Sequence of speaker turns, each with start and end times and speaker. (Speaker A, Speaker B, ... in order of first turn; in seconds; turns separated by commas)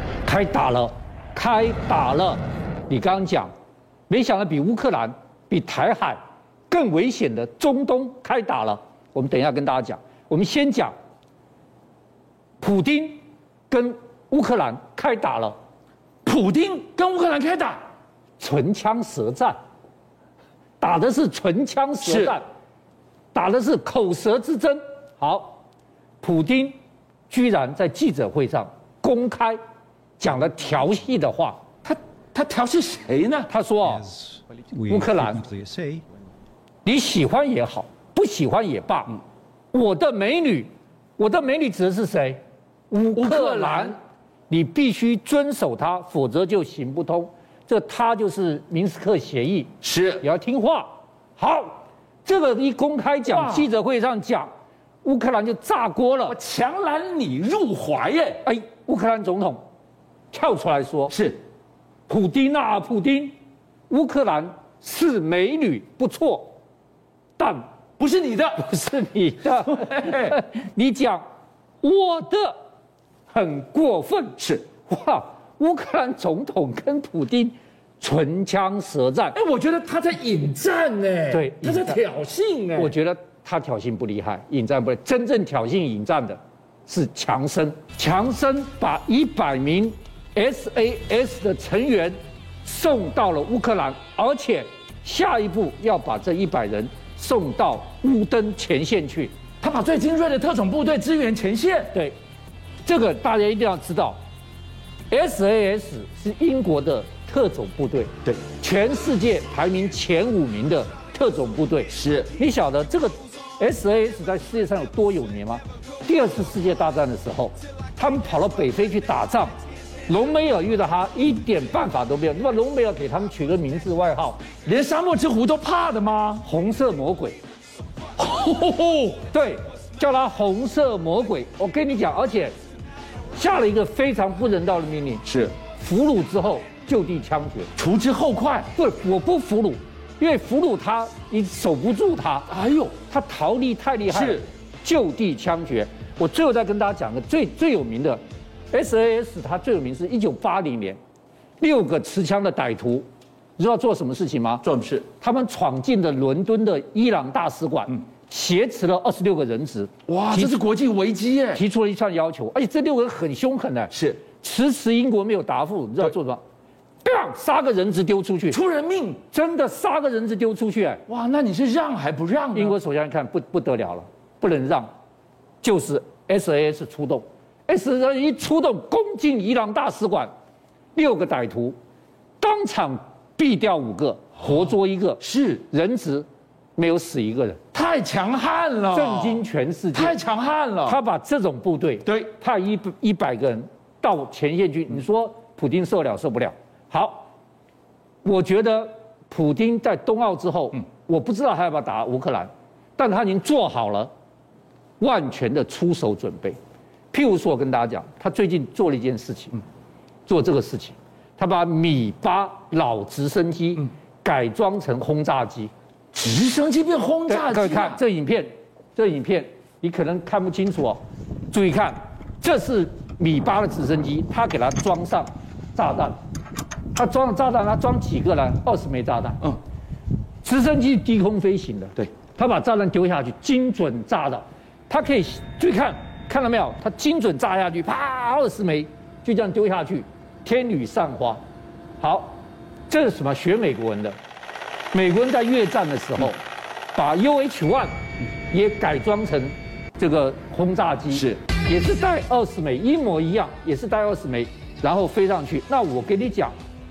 Speaker A: 0.3-3.5, Speaker A: 4.1-6.2, Speaker A: 6.7-10.9, Speaker A: 12.6-13.2, Speaker A: 13.7-15.6, Speaker B: 16.2-17.8, Speaker A: 18.4-19.6, Speaker A: 20.8-22.4, Speaker B: 22.0-22.4, Speaker A: 23.3-25.6, Speaker A: 26.2-26.8, Speaker A: 27.3-29.6, Speaker A: 30.2-31.7, Speaker B: 31.8-33.5, Speaker A: 33.5-34.2, Speaker A: 34.9-35.5, Speaker A: 36.9-39.2, Speaker A: 39.7-42.4, Speaker A: 42.9-44.0, Speaker B: 43.2-44.0, Speaker A: 44.5-54.5, Speaker B: 49.8-50.2, Speaker B: 53.3-53.7, Speaker A: 55.0-56.4, Speaker B: 56.3-58.4, Speaker A: 58.4-59.6, Speaker A: 60.3-61.2, Speaker B: 61.1-61.4, Speaker A: 62.1-63.3, Speaker A: 63.9-66.6, Speaker A: 67.4-67.7, Speaker B: 68.0-68.7, Speaker A: 68.6-71.2, Speaker B: 69.5-70.4, Speaker A: 71.8-72.6, Speaker A: 73.3-79.4, Speaker B: 74.4-74.7, Speaker B: 79.3-82.9, Speaker A: 81.3-82.0, Speaker A: 82.7-99.3, Speaker B: 99.6-101.9, Speaker A: 102.8-104.2, Speaker A: 105.1-119.5, Speaker B: 111.9-112.3, Speaker A: 120.1-124.5, Speaker B: 124.6-126.5, Speaker A: 126.4-127.4, Speaker B: 128.2-129.2, Speaker A: 129.3-132.5, Speaker A: 133.3-137.7, Speaker B: 135.2-135.6, Speaker B: 137.8-138.7, Speaker A: 138.7-148.2, Speaker B: 142.5-143.0, Speaker B: 144.1-144.4, Speaker A: 148.7-151.0, Speaker A: 151.6-153.1, Speaker A: 153.6-160.6, Speaker B: 154.6-155.1, Speaker B: 160.1-161.6, Speaker A: 161.5-166.4, Speaker B: 163.9-164.2, Speaker A: 167.0-168.6, Speaker B: 168.5-169.2, Speaker A: 169.3-171.0, Speaker B: 171.1-172.8, Speaker A: 172.5-174.9, Speaker A: 175.6-180.3, Speaker A: 180.9-181.8, Speaker A: 182.4-186.3, Speaker B: 185.2-185.7, Speaker A: 186.8-187.6, Speaker B: 187.7-189.4, Speaker A: 188.9-190.2, Speaker B: 189.9-191.0, Speaker A: 190.8-197.3, Speaker B: 192.1-192.3, Speaker A: 198.2-204.1, Speaker A: 205.0-206.6, Speaker A: 207.1-209.6, Speaker A: 210.3-215.7, Speaker B: 216.1-218.0, Speaker A: 217.3-221.0, Speaker A: 221.5-226.2, Speaker A: 226.9-229.6, Speaker A: 230.4-241.4, Speaker A: 242.0-244.2, Speaker A: 244.9-246.4, Speaker A: 246.9-247.9, Speaker A: 248.5-256.5, Speaker B: 251.1-251.5